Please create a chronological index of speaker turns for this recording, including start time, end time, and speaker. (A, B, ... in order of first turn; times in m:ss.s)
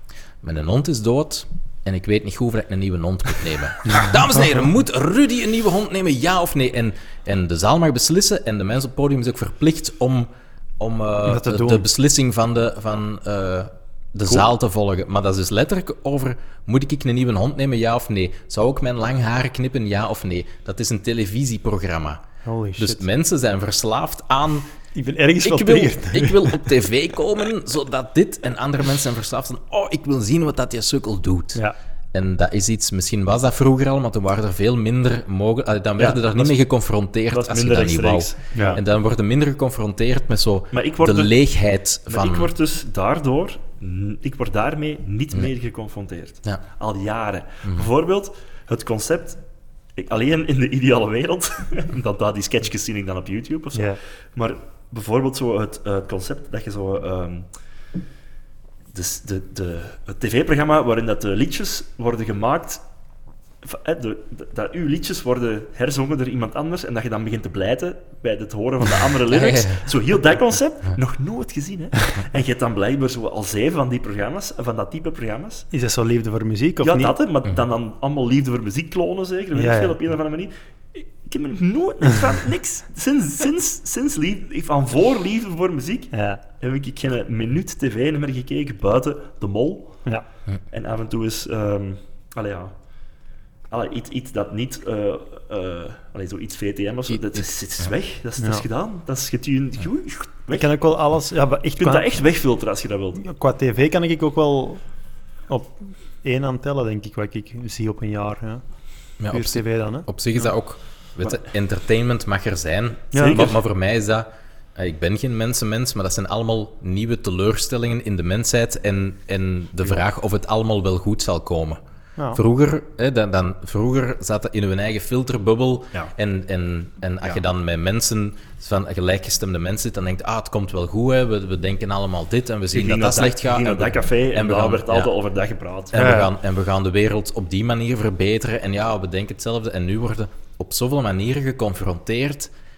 0:00.4-0:22.2 A
0:11.3-0:11.9 B
0:22.4-0:23.0 B
0:22.8-0:24.7 A
0:25.0-0:26.7 B
0:25.4-0:31.6 A
0:32.1-0:42.5 A
0:36.0-0:36.6 C
0:37.3-0:38.8 C
0:38.5-0:38.8 B
0:40.7-0:41.4 C
0:42.1-0:49.4 C
0:50.0-0:57.5 C
0:58.9-1:02.8 C
1:03.6-1:15.7 C
1:09.3-1:09.8 A
1:15.7-1:17.1 B
1:16.8-1:30.0 C
1:19.6-1:20.0 B
1:26.1-1:26.4 B
1:30.7-1:32.7 C
1:33.7-1:40.7 C
1:37.1-1:37.4 A
1:38.4-1:38.6 B
1:40.5-1:42.1 B
1:41.8-1:43.2 C
1:43.2-1:44.8 B
1:45.5-1:48.6 B
1:49.2-2:01.8 A
1:49.3-1:50.1 B
1:53.1-1:53.5 B
1:53.2-1:53.6 C
2:02.3-2:15.1 A
2:12.7-2:15.9 C
2:15.9-2:22.5 A
2:15.9-2:16.3 B